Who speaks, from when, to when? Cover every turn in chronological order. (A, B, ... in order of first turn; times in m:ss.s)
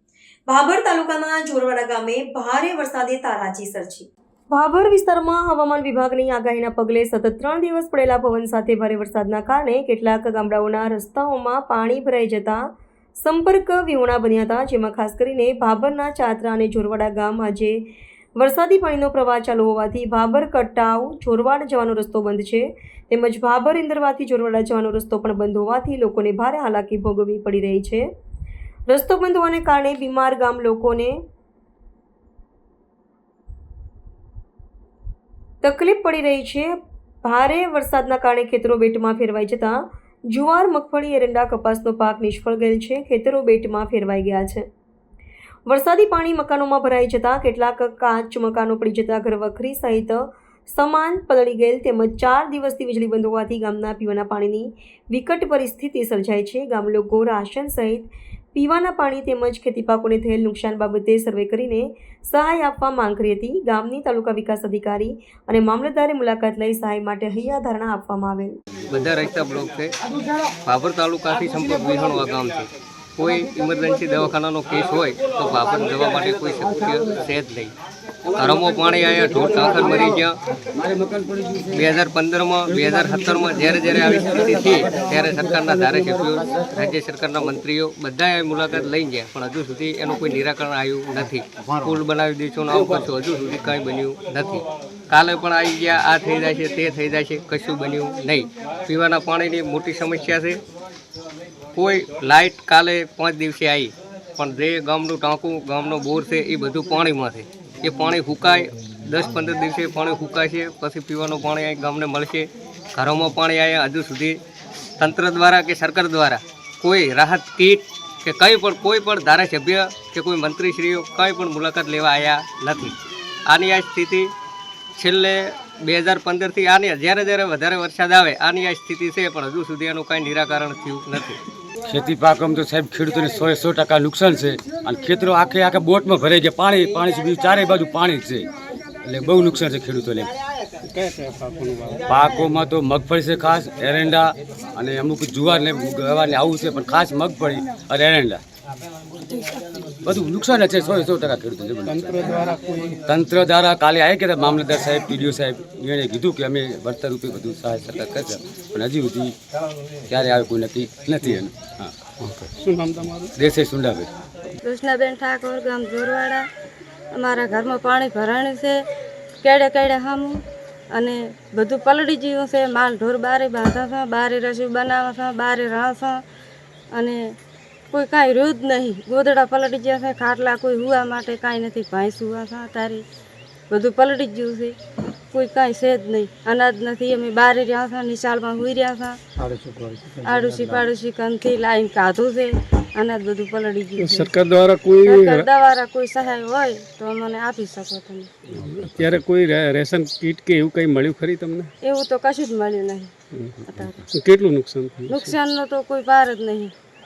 0:00.5-0:17.8 A
0:18.4-0:28.1 A
0:28.9-0:31.2 A
0:35.6-0:44.6 A
0:45.7-1:08.6 A
1:08.9-1:09.9 B
1:10.6-1:17.7 B
1:18.4-1:20.4 B
1:19.7-1:20.0 C
1:20.7-1:21.8 C
1:21.7-1:40.6 B
1:22.8-1:26.2 C
1:32.7-1:33.1 C
1:41.7-1:54.4 B
1:55.0-2:04.3 B
2:05.0-2:11.4 B
2:11.8-2:18.5 C
2:19.0-2:20.3 C
2:20.8-2:22.0 D
2:22.1-2:28.4 C
2:30.0-2:32.2 C
2:31.9-2:33.0 D
2:33.0-2:39.3 C
2:40.1-2:42.0 C
2:42.2-2:43.3 D
2:43.4-2:44.1 C
2:44.6-2:46.5 E
2:47.1-2:48.8 E
2:49.4-2:50.4 E
2:50.9-2:56.2 E
2:56.9-2:57.3 E
2:57.9-3:03.0 E
3:03.7-3:04.8 E
3:05.3-3:09.2 E
3:09.4-3:10.8 D
3:10.2-3:14.3 E
3:14.0-3:15.5 D
3:15.0-3:18.3 E
3:18.5-3:21.7 D
3:21.8-3:23.1 E
3:23.3-3:25.4 D
3:23.6-3:24.0 E
3:25.1-3:26.7 E